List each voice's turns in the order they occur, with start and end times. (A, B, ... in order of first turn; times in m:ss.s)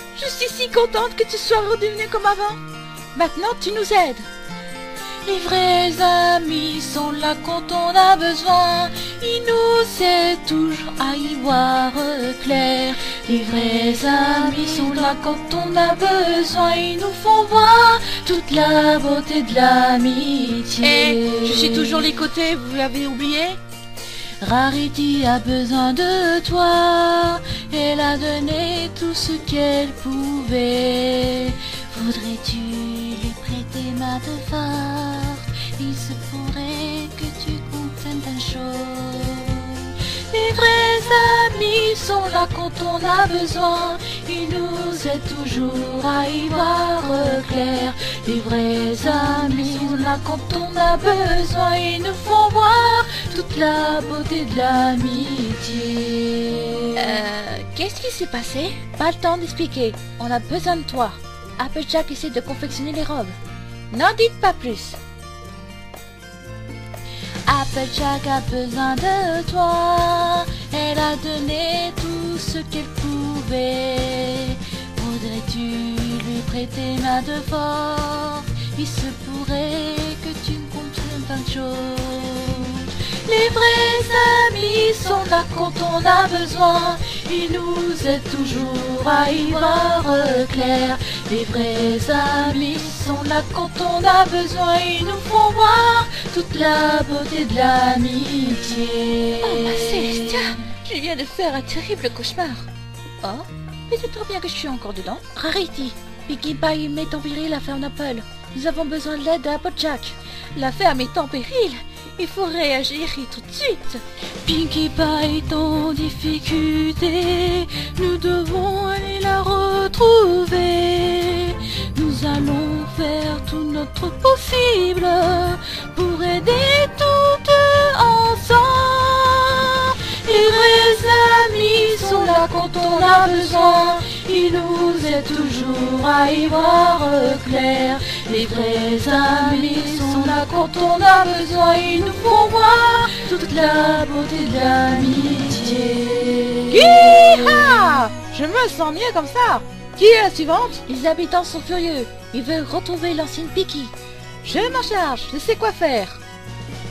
0:00.1-0:02.6 A
0:03.1-0:04.3 A
0:05.2-0:22.1 B
0:20.8-0:23.6 A
0:24.4-0:57.2 B
0:57.0-1:03.4 A
1:03.9-1:05.0 A
1:07.4-1:40.5 B
1:39.4-1:42.7 A
1:43.2-1:54.0 A
1:54.4-2:27.7 B
2:26.7-2:33.9 A
2:34.4-2:36.2 A